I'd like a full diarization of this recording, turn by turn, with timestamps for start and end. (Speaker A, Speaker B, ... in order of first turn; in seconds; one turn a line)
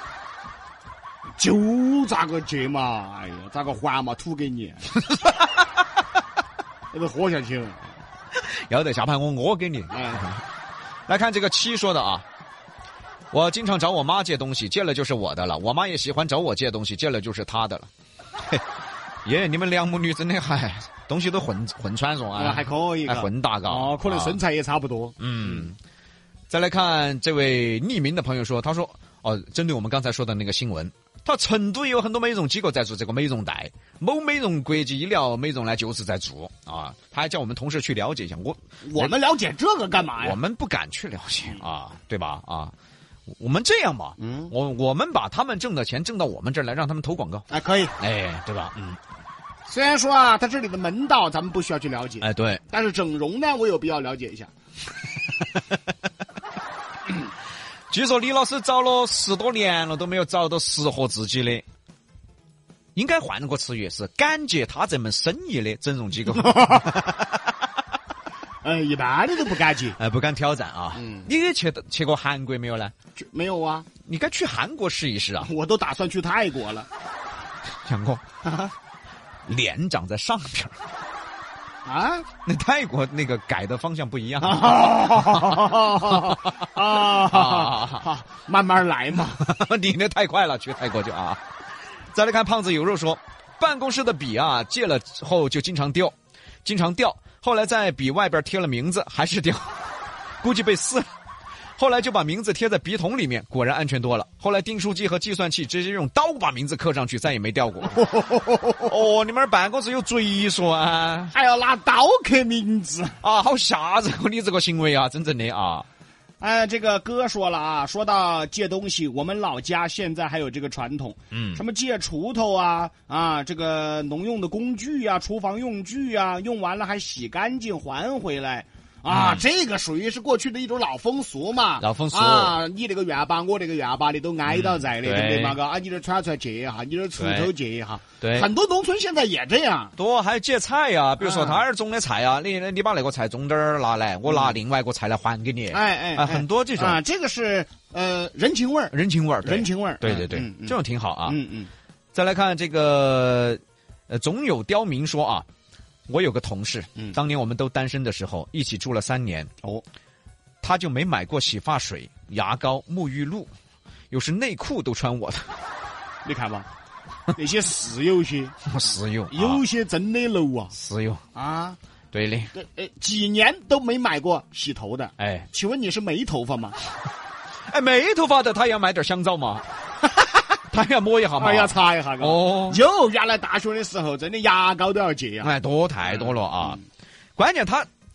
Speaker A: 1.4-4.8
Speaker B: 5.1-5.6
Speaker A: 6.9-7.9
Speaker B: 8.3-10.4
Speaker A: 9.9-10.3
Speaker B: 11.1-12.2
Speaker B: 13.3-17.9
Speaker B: 19.2-24.4
Speaker A: 22.3-25.7
Speaker B: 25.2-25.8
Speaker B: 26.5-39.1
Speaker A: 38.9-40.4
Speaker B: 40.2-42.7
Speaker B: 43.4-47.5
Speaker A: 44.2-44.5
Speaker A: 47.5-48.0
Speaker B: 48.0-49.0
Speaker A: 49.7-54.5
Speaker B: 52.2-52.6
Speaker B: 57.9-61.6
Speaker B: 62.9-67.5
Speaker A: 66.3-66.9
Speaker A: 68.6-70.0
Speaker B: 70.0-72.9
Speaker A: 70.9-71.3
Speaker A: 73.2-73.9
Speaker B: 74.0-75.5
Speaker A: 75.4-76.9
Speaker B: 77.8-78.2
Speaker A: 78.4-78.7
Speaker B: 79.5-80.8
Speaker A: 81.8-82.3
Speaker B: 82.4-88.0
Speaker A: 84.4-89.4
Speaker B: 89.4-91.4
Speaker B: 92.1-101.1
Speaker B: 101.8-108.1
Speaker A: 107.9-108.9
Speaker B: 108.8-111.3
Speaker A: 111.3-113.2
Speaker B: 113.2-115.9
Speaker A: 116.4-139.9
Speaker B: 121.3-121.6
Speaker B: 129.1-129.4
Speaker B: 131.8-132.6
Speaker B: 134.5-135.6
Speaker B: 137.2-137.5
Speaker B: 138.2-138.5
Speaker B: 140.0-147.0
Speaker A: 141.2-141.6
Speaker A: 144.2-144.6
Speaker A: 145.7-151.7
Speaker B: 148.9-151.4
Speaker B: 152.1-155.4
Speaker B: 156.1-159.5
Speaker B: 160.6-163.5
Speaker B: 164.1-165.5
Speaker A: 166.2-166.7
Speaker A: 167.3-168.6
Speaker B: 168.7-169.6
Speaker A: 169.3-170.7
Speaker B: 170.7-171.2
Speaker A: 171.3-171.8
Speaker B: 172.1-172.5
Speaker A: 172.5-176.8
Speaker B: 175.2-175.5
Speaker B: 177.7-179.6
Speaker B: 180.7-182.8
Speaker A: 181.4-185.5
Speaker B: 185.4-186.8
Speaker A: 186.1-186.8
Speaker B: 187.4-187.9